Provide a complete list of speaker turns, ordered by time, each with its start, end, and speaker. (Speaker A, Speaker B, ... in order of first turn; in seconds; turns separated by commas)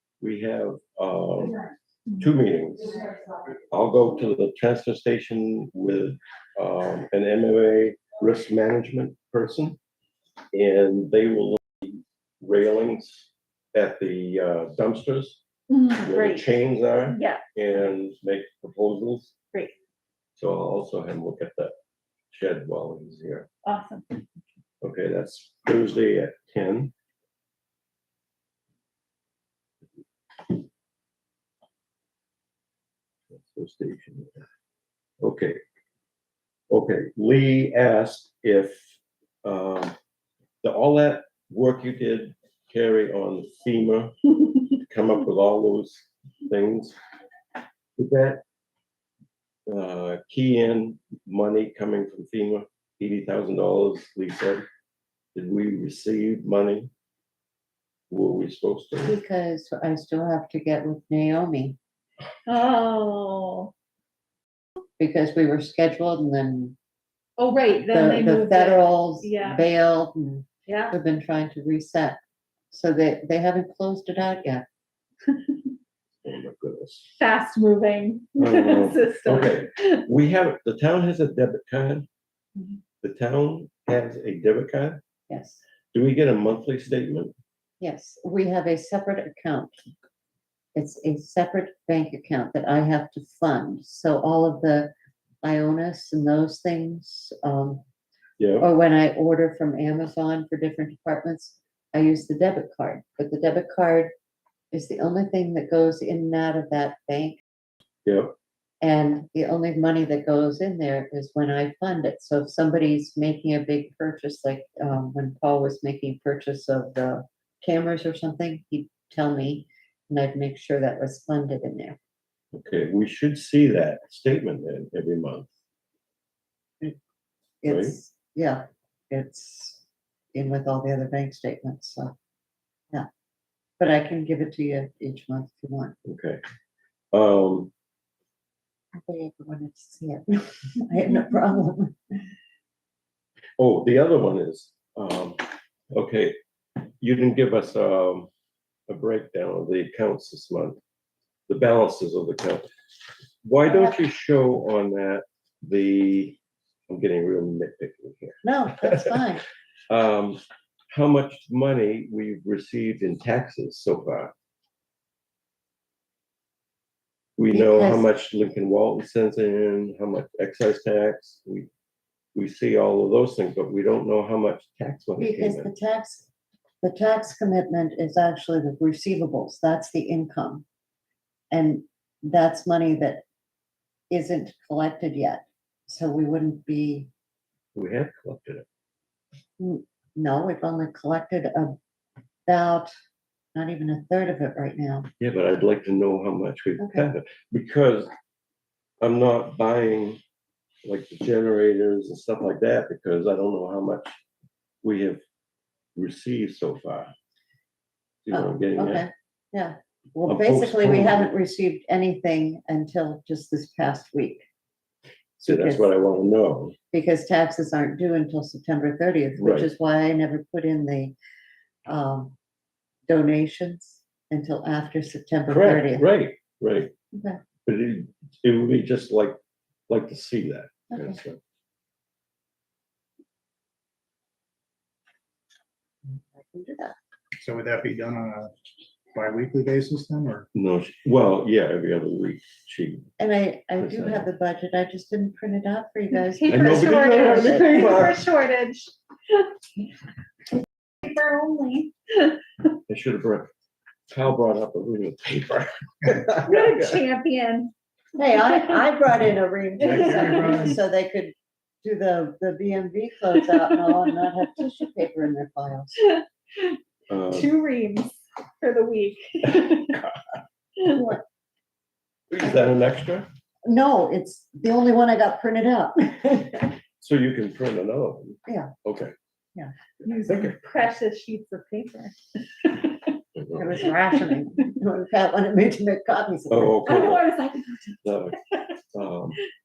Speaker A: 0.2-1.6, Speaker A: 2.2-3.0, Speaker A: 3.7-9.8, Speaker A: 10.5-15.4, Speaker B: 15.7-16.5, Speaker A: 16.0-19.3, Speaker B: 17.1-17.4, Speaker A: 20.4-21.7, Speaker A: 22.3-23.5, Speaker B: 23.6-24.1, Speaker A: 24.8-26.9, Speaker A: 33.4-34.4, Speaker A: 35.2-35.6, Speaker A: 36.7-40.0, Speaker A: 40.6-44.1, Speaker A: 44.8-47.0, Speaker A: 48.0-48.4, Speaker A: 49.7-54.7, Speaker A: 55.3-56.9, Speaker A: 58.1-59.2, Speaker C: 59.0-61.8, Speaker B: 62.5-63.7, Speaker C: 65.0-66.8, Speaker B: 67.4-69.7, Speaker C: 67.9-72.2, Speaker B: 70.7-71.0, Speaker C: 72.7-74.7, Speaker A: 76.2-77.1, Speaker B: 77.2-80.0, Speaker A: 78.4-82.1, Speaker A: 83.0-85.0, Speaker C: 85.3-85.6, Speaker A: 85.9-87.3, Speaker C: 87.8-89.8, Speaker C: 90.8-94.9, Speaker C: 95.4-97.8, Speaker A: 98.4-98.7, Speaker C: 98.6-104.1, Speaker C: 104.7-107.4, Speaker A: 108.1-108.3, Speaker C: 108.8-122.0, Speaker A: 122.5-125.5, Speaker C: 127.6-129.8, Speaker A: 127.7-128.0, Speaker C: 130.3-132.1, Speaker C: 133.8-135.9, Speaker A: 136.0-136.4, Speaker A: 137.1-137.7, Speaker C: 138.9-142.0, Speaker A: 143.6-148.3, Speaker A: 148.9-150.8, Speaker A: 151.5-152.7, Speaker A: 153.4-156.4, Speaker C: 153.7-154.0, Speaker A: 156.9-159.2, Speaker C: 158.4-159.4, Speaker A: 159.9-160.4, Speaker A: 160.9-164.3, Speaker A: 167.4-171.7, Speaker C: 167.5-168.1, Speaker A: 172.3-175.7, Speaker C: 175.2-176.3, Speaker C: 176.8-180.6, Speaker C: 181.5-183.2, Speaker C: 184.1-187.1, Speaker A: 187.8-188.6, Speaker C: 189.6-191.8, Speaker C: 192.5-192.9, Speaker C: 193.5-195.1, Speaker A: 195.2-198.1, Speaker C: 196.8-197.1, Speaker A: 199.0-200.2, Speaker A: 200.8-204.2, Speaker A: 204.8-205.2, Speaker A: 205.9-207.1, Speaker A: 208.2-209.1, Speaker C: 208.3-214.4, Speaker A: 210.2-211.3, Speaker C: 215.4-215.9, Speaker A: 215.4-216.8, Speaker C: 216.9-221.1, Speaker A: 219.4-219.7, Speaker C: 221.9-222.3, Speaker C: 223.1-226.1, Speaker A: 225.5-226.9, Speaker C: 227.1-227.4, Speaker A: 227.7-229.4, Speaker A: 229.9-231.4, Speaker C: 230.9-231.2, Speaker C: 236.3-236.9, Speaker D: 237.4-238.5, Speaker D: 239.1-240.5, Speaker A: 240.5-243.1, Speaker C: 243.2-247.8, Speaker A: 243.8-244.3, Speaker B: 246.1-249.5, Speaker A: 246.5-248.2, Speaker B: 251.0-252.4, Speaker A: 252.9-253.5, Speaker A: 254.1-257.0, Speaker B: 256.4-257.7, Speaker C: 258.1-266.1, Speaker B: 259.8-260.6, Speaker D: 259.8-260.8, Speaker B: 266.0-266.8, Speaker A: 267.1-267.6, Speaker B: 267.3-270.0, Speaker A: 269.9-270.4, Speaker B: 270.8-271.1, Speaker C: 270.9-271.2, Speaker A: 272.3-273.3, Speaker C: 273.6-276.7, Speaker A: 277.0-279.1, Speaker C: 278.5-278.7, Speaker B: 280.0-283.0, Speaker A: 280.2-280.6, Speaker A: 283.4-283.8, Speaker C: 283.6-286.9, Speaker A: 286.5-287.2, Speaker B: 286.8-288.6, Speaker A: 288.0-288.4, Speaker A: 288.9-289.4